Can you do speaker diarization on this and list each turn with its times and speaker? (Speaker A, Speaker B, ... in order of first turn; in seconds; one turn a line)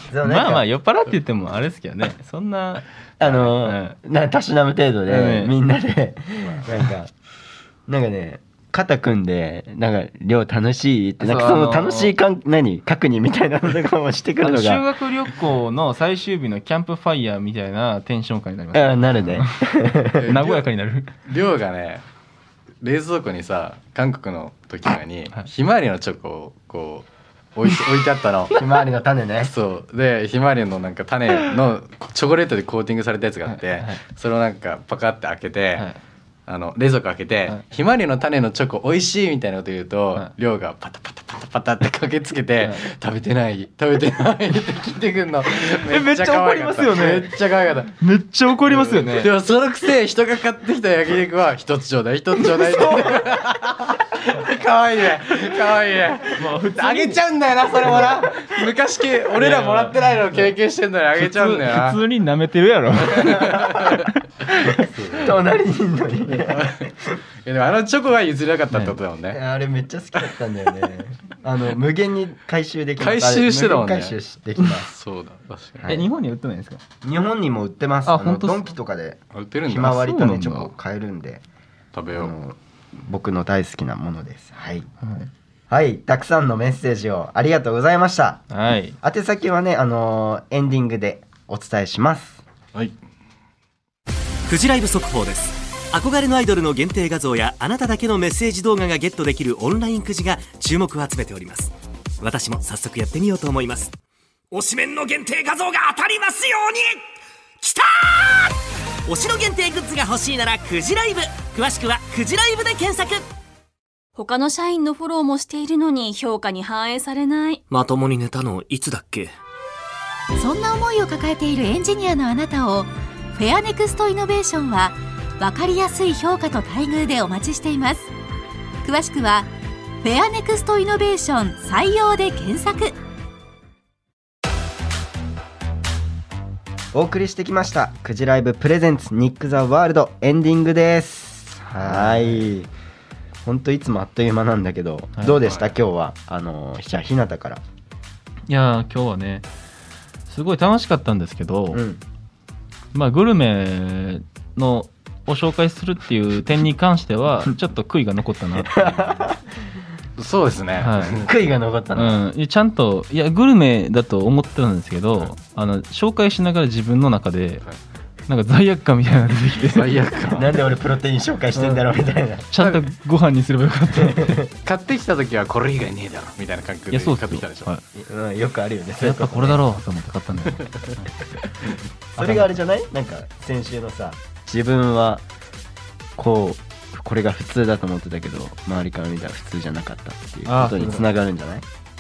Speaker A: 0.1-0.6
Speaker B: 0.2-4.0
Speaker A: 3.2-7.1
Speaker B: 5.1-5.5
Speaker A: 7.9-14.8
Speaker B: 11.2-12.2
Speaker B: 14.4-19.5
Speaker A: 18.7-20.4
Speaker B: 20.2-21.1
Speaker C: 20.2-20.6
Speaker C: 21.2-22.1
Speaker C: 22.8-28.6
Speaker A: 28.5-29.5
Speaker C: 29.4-35.9
Speaker B: 33.5-34.0
Speaker C: 36.5-48.0
Speaker B: 45.8-47.3
Speaker B: 48.0-49.3
Speaker C: 48.7-62.0
Speaker B: 56.4-57.2
Speaker A: 59.4-59.9
Speaker B: 61.2-64.1
Speaker C: 63.1-64.0
Speaker A: 64.8-67.1
Speaker C: 66.5-66.9
Speaker C: 67.4-69.4
Speaker B: 68.7-69.0
Speaker A: 69.3-74.9
Speaker C: 73.0-74.2
Speaker C: 74.8-75.9
Speaker A: 75.8-76.1
Speaker B: 75.9-76.8
Speaker A: 77.0-81.4
Speaker B: 78.1-78.7
Speaker C: 79.3-80.0
Speaker B: 80.0-80.7
Speaker C: 81.9-82.3
Speaker A: 82.1-84.9
Speaker B: 85.0-85.3
Speaker A: 85.7-88.5
Speaker B: 88.5-89.0
Speaker A: 89.0-92.4
Speaker D: 94.5-103.9
Speaker D: 104.5-107.0
Speaker D: 107.6-113.3
Speaker E: 114.2-117.6
Speaker D: 117.7-119.3
Speaker F: 120.4-128.1
Speaker F: 128.8-129.5
Speaker F: 130.0-132.9
Speaker A: 136.9-142.7
Speaker B: 141.7-142.5
Speaker A: 143.4-147.6
Speaker C: 145.4-145.7
Speaker B: 148.5-149.4
Speaker B: 150.3-151.8
Speaker A: 151.7-152.0
Speaker B: 152.9-158.9
Speaker A: 158.6-159.4
Speaker C: 160.2-161.1
Speaker B: 160.8-161.2
Speaker A: 161.2-162.2
Speaker B: 161.9-167.7
Speaker B: 168.3-169.9
Speaker C: 169.7-170.5
Speaker A: 170.3-172.5
Speaker B: 171.6-171.9
Speaker B: 172.5-174.4
Speaker A: 174.0-174.3
Speaker C: 174.7-177.7
Speaker B: 176.9-177.8
Speaker A: 177.9-179.6
Speaker B: 179.0-181.1
Speaker B: 182.2-182.5
Speaker A: 182.2-185.3
Speaker A: 186.2-191.6
Speaker B: 190.5-191.1